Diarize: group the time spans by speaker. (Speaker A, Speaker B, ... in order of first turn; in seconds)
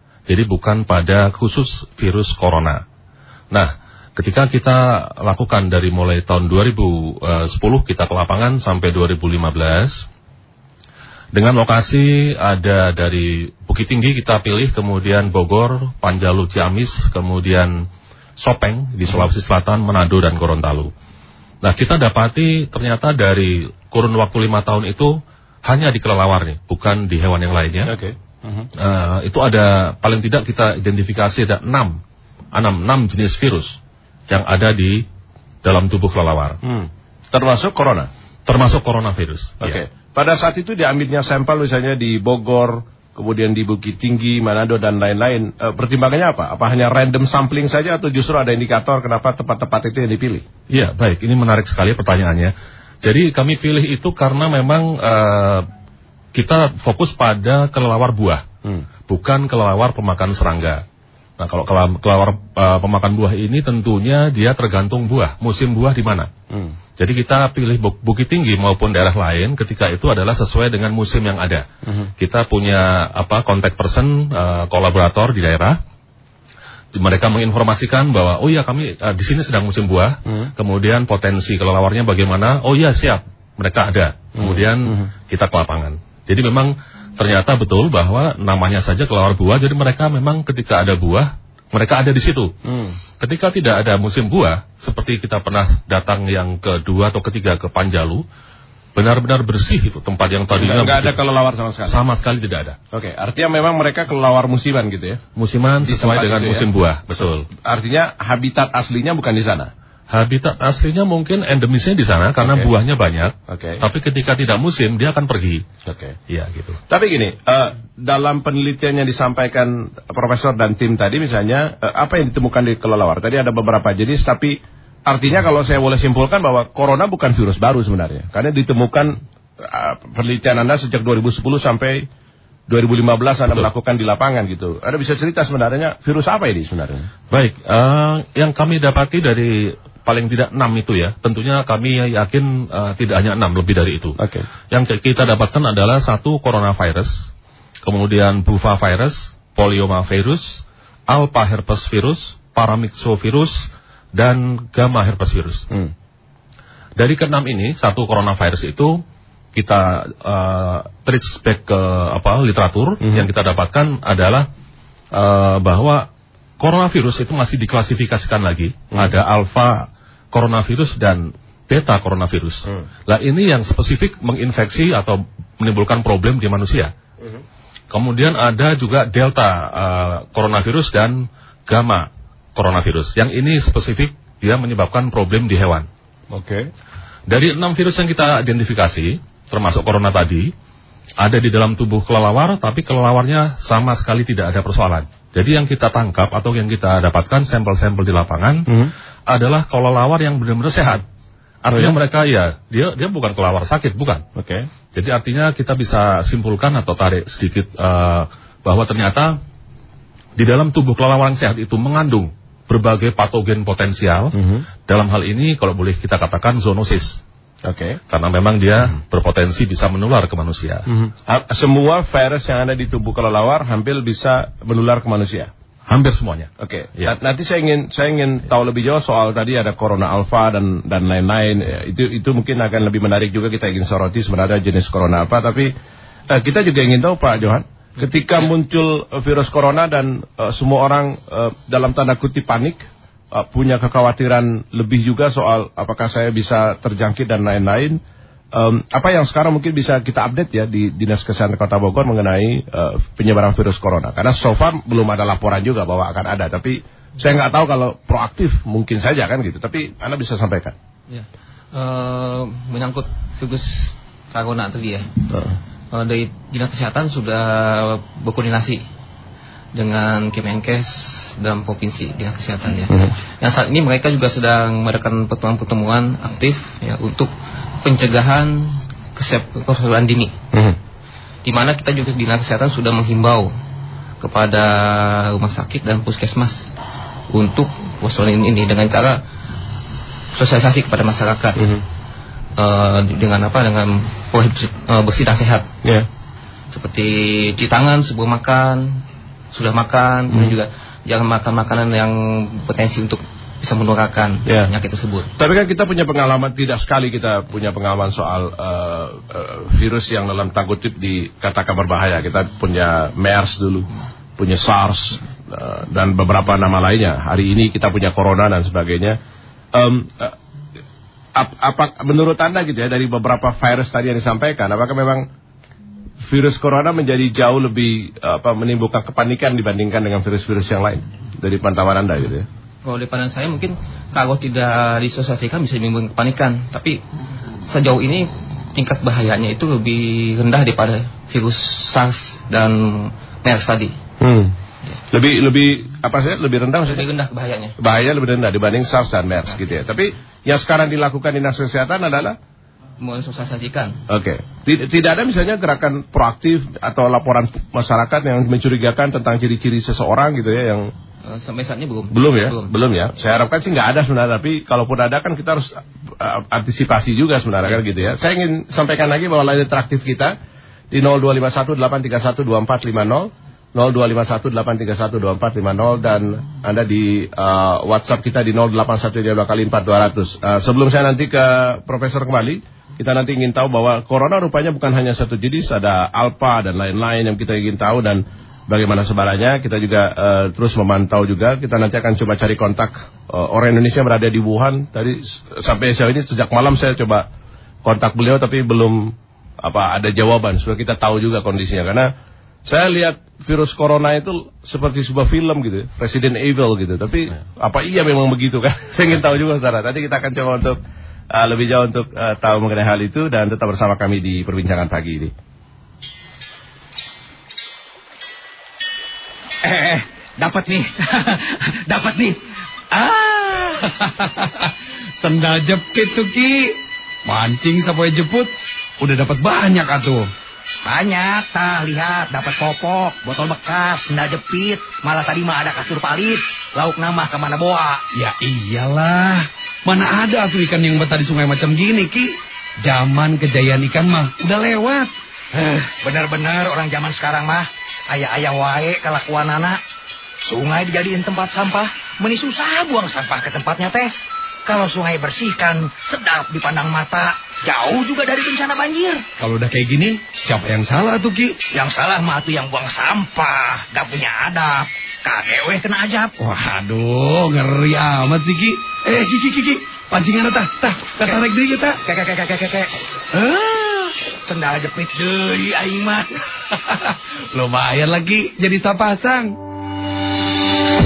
Speaker A: 0.3-2.8, 3.5-10.1, 11.3-17.9, 18.4-20.9, 21.6-25.1, 25.6-27.9, 28.8-32.0, 32.5-33.8, 34.3-35.0, 35.6-36.6, 38.5-39.8, 50.7-55.7, 56.3-58.4, 59.1-60.8, 61.4-66.3, 67.0-71.7, 72.2-75.8, 77.0-92.5, 93.2-98.2, 99.0-101.2, 101.9-102.8, 105.4-107.5, 110.1-115.7, 116.3-116.8, 137.3-144.2, 144.7-147.3, 147.8-155.7, 157.0-159.0, 159.5-164.5, 165.1-166.1, 166.6-176.9, 177.9-185.9, 187.3-190.5, 191.2-198.7, 199.3-201.0, 201.6-204.2, 204.9-209.4, 210.4-214.3, 214.9-217.2, 218.1-220.9, 225.9-227.2
Speaker B: 27.9-28.7, 36.6-38.1, 39.6-50.5, 66.5-66.8, 71.8-72.1, 84.4-85.1, 92.6-93.0, 100.5-102.0, 102.9-105.2, 105.8-106.7, 107.2-109.7, 112.4-112.7, 113.5-113.8, 115.9-116.2, 116.9-132.1, 132.7-137.1, 144.2-144.5, 163.0-163.3, 186.3-186.7, 198.7-198.9, 201.7-202.0, 204.4-204.7, 214.3-214.7, 217.6-218.0, 220.9-225.5, 226.6-235.7, 236.3-248.0, 248.5-260.8, 272.9-273.1, 291.6-291.8, 300.3-300.6, 304.5-304.7, 305.4-319.2, 319.7-320.4, 321.4-325.3, 326.2-332.5, 344.2-344.6, 345.1-347.1, 347.8-352.4, 354.1-360.9, 362.1-370.4, 370.9-397.3, 397.8-402.1, 402.6-410.8, 411.3-415.3
Speaker C: 261.1-265.1, 265.9-268.8, 269.8-277.3, 277.8-280.4, 281.4-283.5, 284.2-286.7, 287.3-289.2, 290.3-291.6, 292.6-295.7, 296.7-305.3, 332.9-337.0, 337.6-344.0, 346.9-347.7, 353.0-354.0, 361.2-362.7
Speaker D: 419.6-422.4, 430.9-438.1, 444.5-445.0, 445.6-449.8, 450.4-454.1, 454.7-459.2, 461.7-466.4, 472.1-472.9, 474.4-476.3, 477.7-478.2
Speaker E: 423.3-424.7, 425.2-430.3, 438.2-444.5, 459.4-461.6, 466.4-472.0, 473.4-474.1, 477.6-479.5